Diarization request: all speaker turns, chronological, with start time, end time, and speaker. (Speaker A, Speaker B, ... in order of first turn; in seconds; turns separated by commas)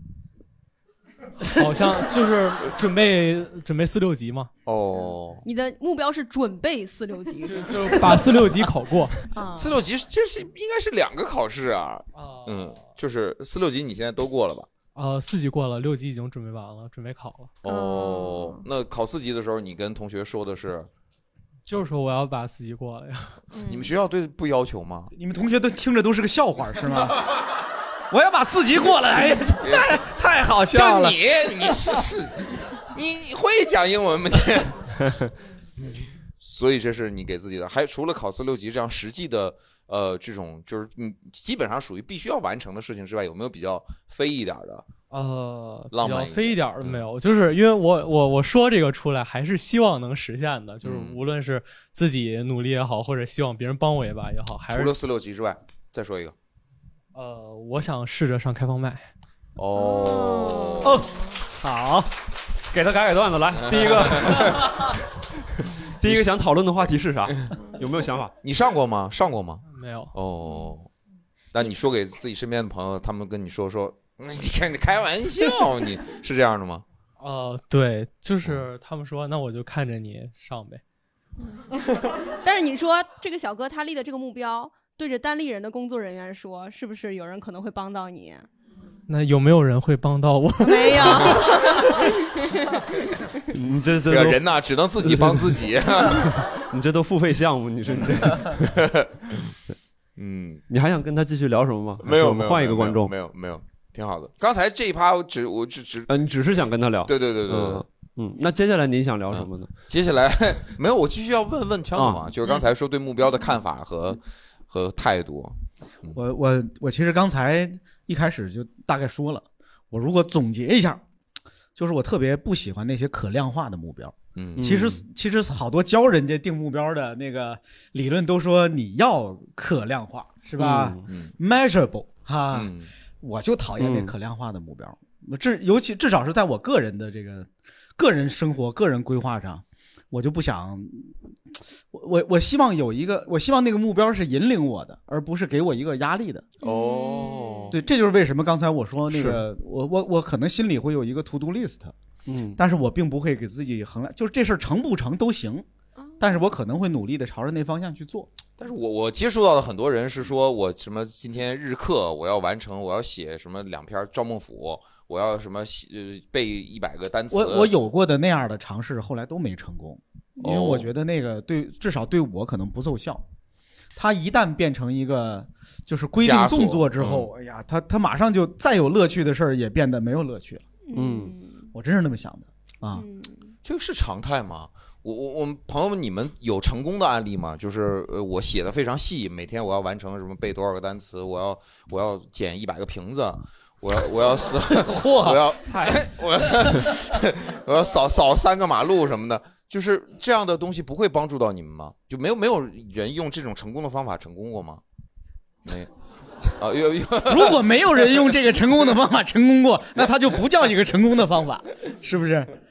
Speaker A: 1.4-4.5, Speaker B: 4.7-5.4, Speaker C: 5.4-8.3, Speaker A: 7.4-9.3, Speaker C: 9.3-9.8, Speaker B: 9.5-14.7, Speaker A: 12.1-12.8, Speaker A: 14.9-17.5, Speaker C: 17.6-18.6, Speaker B: 17.6-20.9, Speaker A: 21.6-23.4, Speaker C: 23.5-23.9, Speaker B: 23.6-25.1, Speaker D: 25.1-27.2, Speaker D: 28.1-31.2, Speaker B: 29.6-29.9, Speaker B: 30.7-35.0, Speaker B: 36.4-44.9, Speaker A: 45.1-54.9, Speaker B: 45.9-47.0, Speaker B: 50.8-51.2, Speaker B: 54.7-56.3, Speaker A: 57.1-59.1, Speaker B: 59.6-61.0, Speaker C: 59.8-60.8, Speaker D: 60.8-62.1, Speaker E: 62.7-64.9, Speaker B: 63.7-64.7, Speaker E: 66.0-68.3, Speaker B: 66.0-66.3, Speaker B: 68.4-70.9, Speaker A: 69.7-70.1, Speaker B: 71.5-76.8, Speaker A: 77.2-80.8, Speaker C: 81.5-81.8, Speaker C: 82.4-88.5, Speaker A: 89.1-92.0, Speaker C: 90.6-93.4, Speaker E: 93.5-94.4, Speaker B: 94.1-96.3, Speaker E: 95.0-98.7, Speaker B: 97.9-99.5, Speaker B: 100.2-100.6, Speaker E: 100.7-103.1, Speaker B: 102.0-106.1, Speaker E: 106.1-109.7, Speaker B: 107.0-107.8, Speaker B: 109.3-116.2, Speaker E: 111.9-112.3, Speaker D: 116.1-121.0, Speaker D: 121.8-141.2, Speaker B: 124.3-124.8, Speaker E: 124.5-125.0, Speaker E: 130.6-131.1, Speaker B: 131.1-131.3, Speaker B: 132.5-132.9, Speaker E: 133.8-134.1, Speaker D: 141.9-146.4, Speaker C: 146.6-147.8, Speaker B: 146.6-147.8, Speaker D: 147.7-151.9, Speaker E: 149.1-149.4, Speaker E: 152.2-152.6, Speaker D: 152.6-155.6, Speaker C: 156.0-156.2, Speaker D: 156.2-158.3, Speaker B: 158.6-167.7, Speaker D: 167.3-173.2, Speaker B: 170.4-170.9, Speaker D: 173.9-180.6, Speaker B: 176.2-177.3, Speaker C: 180.9-181.7, Speaker E: 180.9-181.3, Speaker D: 181.7-183.0, Speaker C: 182.9-183.5, Speaker B: 183.6-204.8, Speaker D: 194.7-195.4, Speaker E: 195.7-196.1, Speaker B: 206.5-208.0, Speaker D: 207.2-212.5